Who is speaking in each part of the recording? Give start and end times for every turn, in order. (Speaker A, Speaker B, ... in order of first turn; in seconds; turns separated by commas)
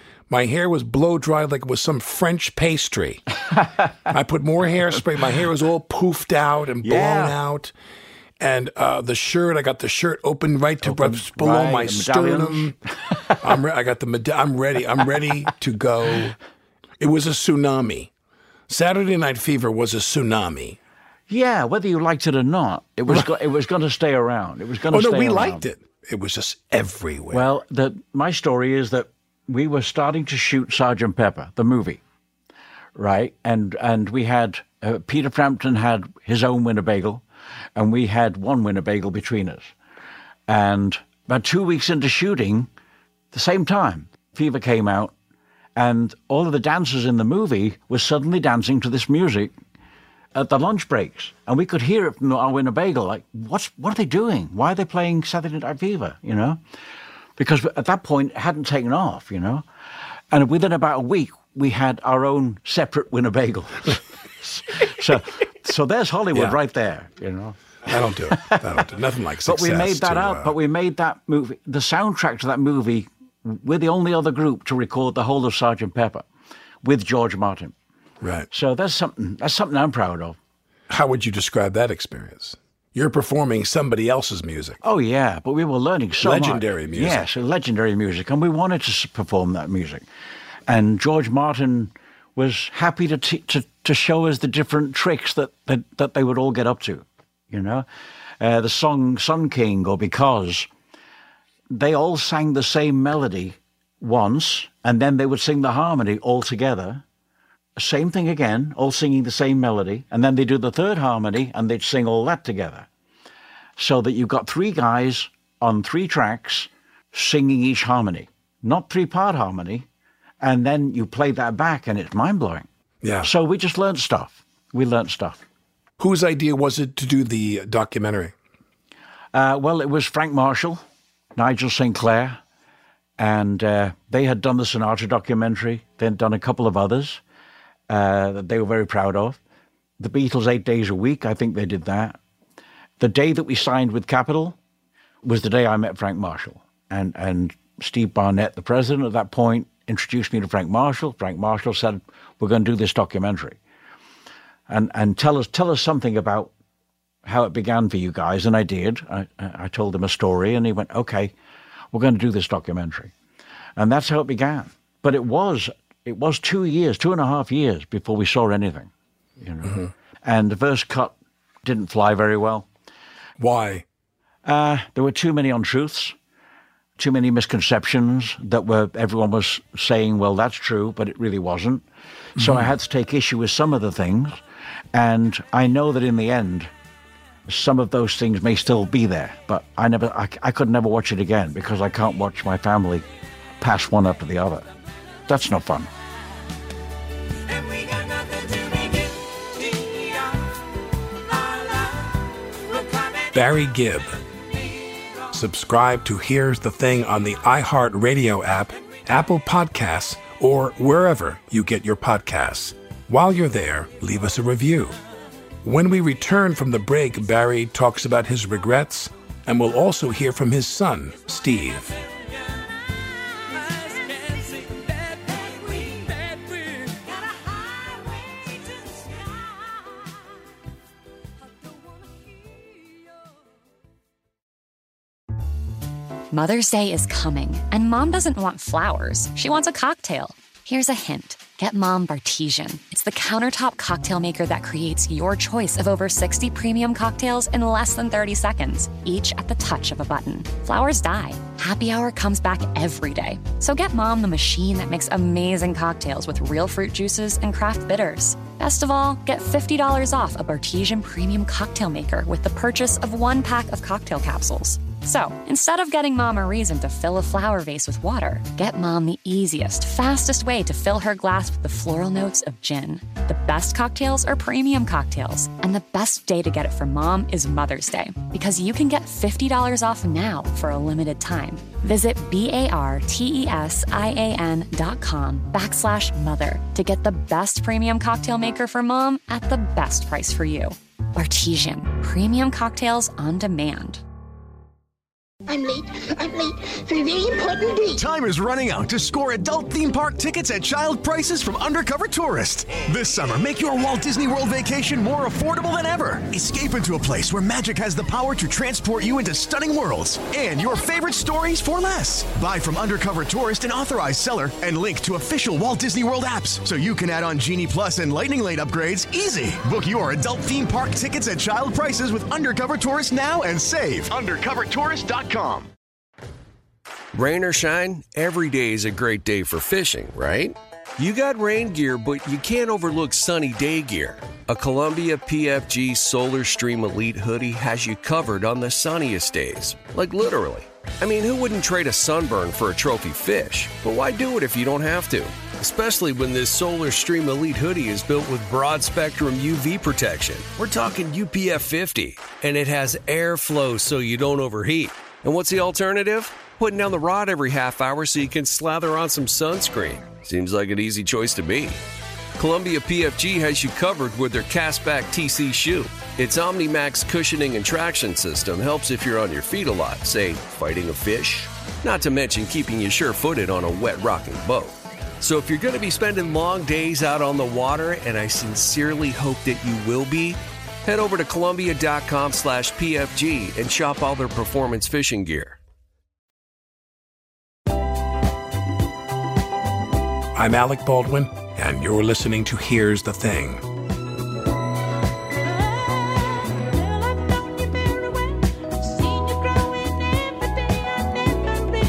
Speaker A: 0.3-3.2, Speaker B: 3.5-3.9, Speaker A: 4.1-7.7, Speaker B: 6.8-7.4, Speaker A: 8.4-12.8, Speaker B: 10.8-13.4, Speaker A: 13.4-16.4, Speaker A: 17.0-18.1, Speaker A: 18.7-20.8, Speaker B: 21.3-25.6, Speaker A: 24.9-27.5, Speaker B: 27.3-32.0, Speaker B: 33.0-37.2, Speaker B: 37.7-39.7, Speaker B: 40.5-42.7, Speaker B: 43.3-45.1, Speaker B: 45.8-49.5, Speaker B: 50.3-56.6, Speaker B: 57.4-59.6, Speaker B: 60.3-68.8, Speaker A: 66.3-66.6, Speaker A: 67.8-70.5, Speaker B: 69.5-76.3, Speaker B: 76.8-77.7, Speaker A: 78.2-78.5, Speaker B: 78.5-80.4, Speaker A: 80.9-84.8, Speaker B: 84.8-90.0, Speaker A: 86.2-87.2, Speaker B: 90.7-97.8, Speaker B: 98.4-100.7, Speaker B: 101.7-107.0, Speaker B: 107.8-112.9, Speaker B: 113.8-119.8, Speaker B: 120.4-122.7, Speaker A: 123.0-123.3, Speaker B: 123.2-125.4, Speaker A: 126.0-128.3, Speaker B: 129.3-130.8, Speaker B: 131.3-132.4, Speaker B: 133.2-137.2, Speaker B: 137.9-139.4, Speaker B: 140.0-142.2, Speaker B: 143.0-144.6, Speaker B: 145.2-153.6, Speaker B: 154.7-156.5, Speaker B: 157.2-161.3, Speaker B: 161.9-163.1, Speaker B: 163.8-172.7, Speaker A: 173.4-173.8, Speaker B: 174.4-176.1, Speaker B: 177.0-181.8, Speaker B: 182.3-184.4, Speaker A: 182.4-182.7, Speaker B: 184.9-186.7, Speaker B: 187.5-193.1, Speaker B: 193.6-194.7, Speaker B: 195.3-195.9, Speaker A: 203.3-204.2, Speaker A: 205.3-215.0, Speaker A: 215.6-222.0, Speaker C: 236.3-294.0, Speaker D: 295.5-298.0, Speaker E: 297.9-325.7, Speaker F: 327.1-361.8, Speaker F: 362.4-385.6, Speaker A: 390.3-393.6